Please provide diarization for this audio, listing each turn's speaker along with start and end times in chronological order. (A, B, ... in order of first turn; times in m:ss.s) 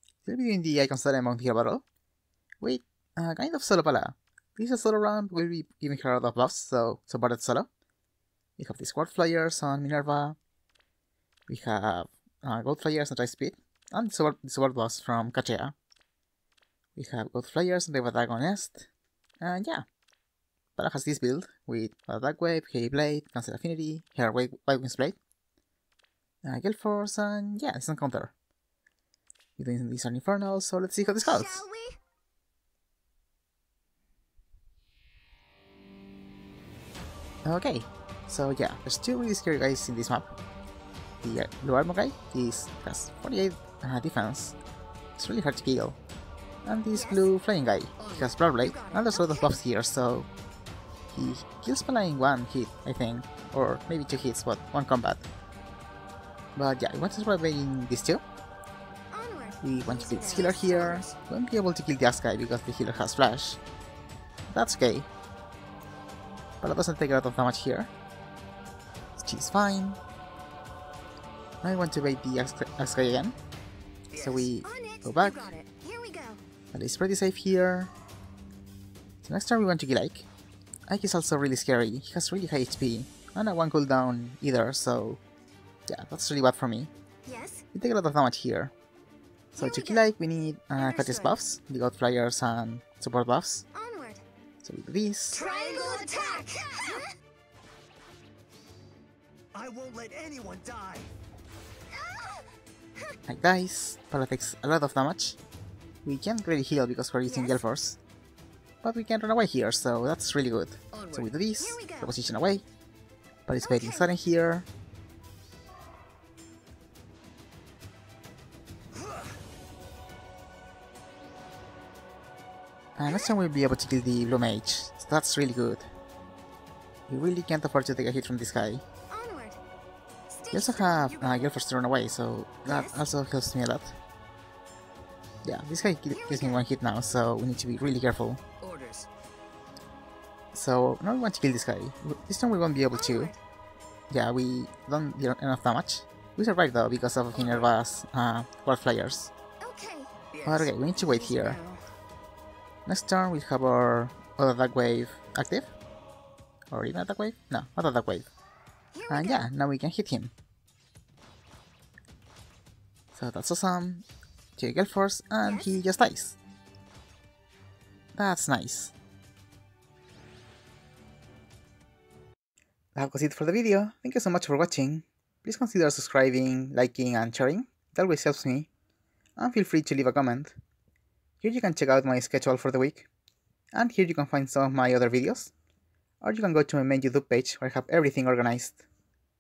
0:00.2-0:01.8 A
0:02.6-0:07.7 A
0:08.6-0:10.4 A
0:11.5-0:15.8 A
0:17.0-0:18.9 A
0:19.4-0:19.8 A
0:20.8-0:25.2 A
0:26.4-0:28.3 A
0:29.6-0:31.6 A
0:31.1-0:32.0 B
0:37.4-0:40.3 A
0:41.2-0:44.6 A
0:45.2-0:46.0 A
0:46.6-0:50.3 A
0:46.9-0:47.3 B
0:48.0-0:48.3 C
0:48.6-0:49.6 B
0:51.1-0:55.2 A
0:56.6-0:58.2 A
0:59.1-1:01.1 B
0:59.6-1:03.6 A
1:04.5-1:05.1 A
1:06.6-1:07.9 A
1:09.2-1:10.0 A
1:11.6-1:13.4 A
1:14.1-1:14.5 C
1:14.1-1:15.5 A
1:14.6-1:16.4 B
1:16.7-1:17.9 A
1:19.2-1:20.3 A
1:20.9-1:25.2 A
1:25.9-1:26.9 A
1:27.2-1:27.6 B
1:27.7-1:28.7 A
1:29.6-1:30.1 B
1:29.6-1:33.7 A
1:30.8-1:31.4 B
1:33.7-1:34.2 B
1:34.6-1:35.4 A
1:35.3-1:37.1 B
1:35.4-1:37.0 C
1:39.6-1:41.1 C
1:41.9-1:42.4 B
1:43.3-1:45.4 A
1:46.0-1:48.0 A
1:47.3-1:47.6 B
1:48.8-1:52.6 A
1:51.0-1:51.3 C
1:51.6-1:52.1 B
1:53.5-1:54.7 A
1:53.6-1:54.1 B
2:03.0-2:05.9 A
2:07.1-2:08.8 A
2:09.1-2:09.6 B
2:10.3-2:11.6 B
2:10.5-2:14.0 A
2:12.7-2:13.0 B
2:15.4-2:18.4 A
2:16.1-2:16.6 B
2:18.6-2:19.1 C
2:20.5-2:23.3 A
2:22.9-2:23.4 B
2:24.1-2:29.3 A
2:27.3-2:27.7 C
2:29.6-2:30.1 B
2:30.3-2:30.7 C
2:30.4-2:31.6 A
2:31.0-2:31.8 B
2:32.9-2:35.7 A
2:36.7-2:38.3 A
2:38.9-2:39.5 B
2:39.1-2:40.3 A
2:43.1-2:44.0 A
2:44.6-2:46.4 A
2:45.4-2:45.8 B
2:48.2-2:48.9 A
2:53.0-2:58.7 A
2:59.4-3:00.6 A
3:01.4-3:03.1 A
3:03.7-3:05.5 A
3:06.2-3:08.8 A